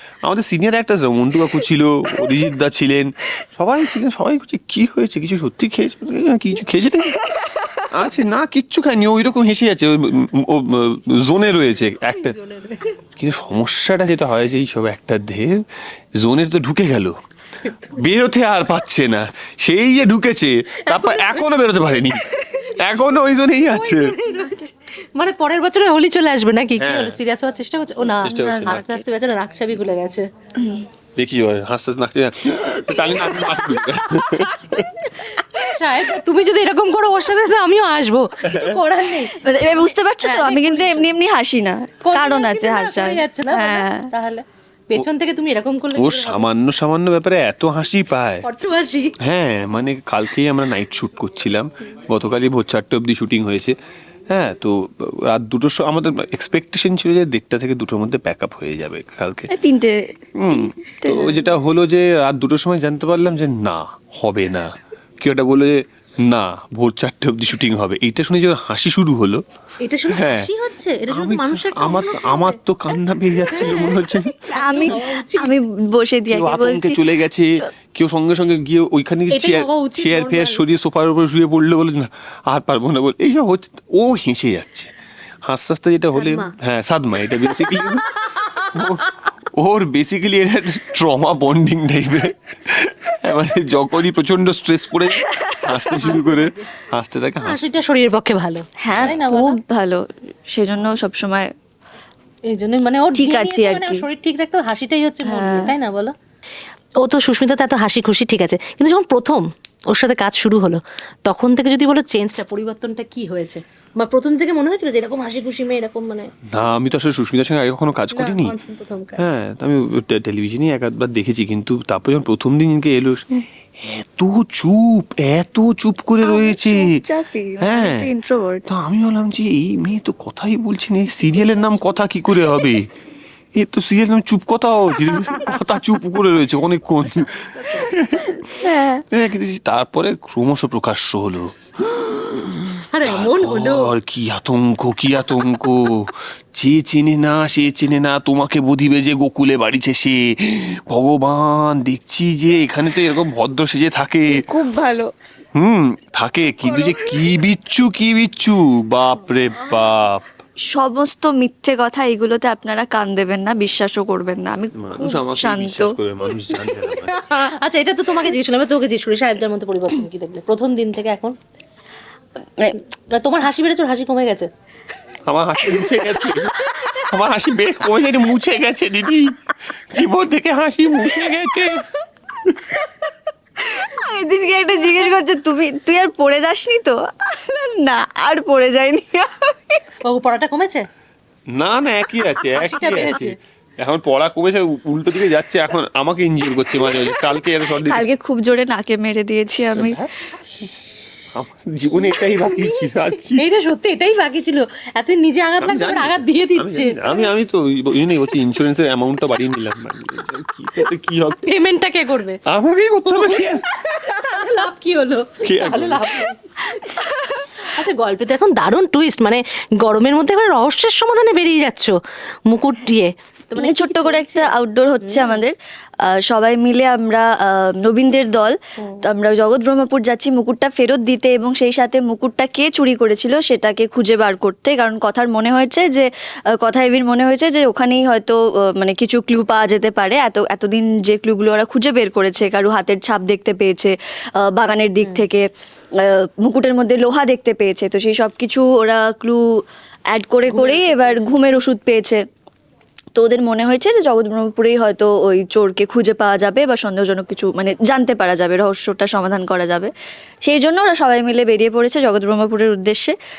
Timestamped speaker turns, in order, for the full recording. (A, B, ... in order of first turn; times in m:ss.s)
0:00.2-0:07.2 A
0:07.2-0:07.8 B
0:07.9-0:12.4 A
0:12.1-0:13.0 C
0:13.2-0:15.6 A
0:16.2-0:17.2 A
0:17.6-0:18.0 C
0:18.0-0:24.1 A
0:20.8-0:21.5 C
0:22.3-0:22.8 C
0:23.7-0:30.2 C
0:26.8-0:27.2 A
0:28.2-0:29.0 A
0:30.6-0:30.9 B
0:31.2-0:34.9 A
0:35.3-0:41.1 C
0:38.5-0:38.8 A
0:39.4-0:44.1 B
0:42.0-0:46.5 C
0:46.0-0:48.4 A
0:48.4-0:49.2 C
0:49.2-0:53.8 A
0:54.3-0:59.5 A
0:59.5-1:01.5 B
1:00.4-1:09.4 A
1:09.8-1:12.6 C
1:10.1-1:10.5 A
1:11.1-1:15.0 A
1:13.5-1:15.5 C
1:14.5-1:17.1 B
1:16.3-1:24.9 A
1:19.3-1:20.6 C
1:25.5-1:37.6 A
1:26.1-1:26.5 C
1:35.2-1:35.7 B
1:35.9-1:36.8 C
1:37.4-1:39.6 C
1:38.8-1:41.5 B
1:38.9-1:39.2 A
1:42.5-1:46.1 C
1:43.2-1:44.1 B
1:45.2-1:45.7 B
1:47.0-1:56.3 C
1:56.5-1:58.5 A
1:58.1-1:59.3 C
1:59.2-2:07.0 A
2:06.2-2:08.6 B
2:07.6-2:08.1 A
2:08.7-2:12.9 A
2:13.6-2:18.4 A
2:18.4-2:19.0 B
2:19.1-2:34.5 A
2:22.9-2:23.9 C
2:34.3-2:35.1 B
2:35.6-2:40.3 A
2:40.7-2:46.0 B
2:44.8-2:47.2 A
2:46.5-2:51.4 C
2:53.1-2:54.5 C
2:55.3-3:01.9 A
2:56.4-2:57.2 C
3:03.6-3:09.8 B
3:04.8-3:05.0 C
3:10.0-3:10.8 C
3:11.5-3:18.0 A
3:12.6-3:13.4 C
3:16.7-3:20.0 B
3:19.8-3:20.7 A
3:21.3-3:23.4 A
3:22.4-3:27.3 C
3:25.6-3:31.5 A
3:31.4-3:32.4 C
3:32.5-3:33.7 A
3:33.1-3:41.9 C
3:35.4-3:36.2 A
3:37.0-3:37.4 B
3:42.5-3:45.4 C
3:43.6-3:45.6 B
3:46.1-3:56.1 B
3:56.6-4:05.5 B
4:06.0-4:09.4 B
4:10.1-4:12.2 B
4:10.5-4:11.4 C
4:13.2-4:19.9 B
4:20.4-4:23.1 B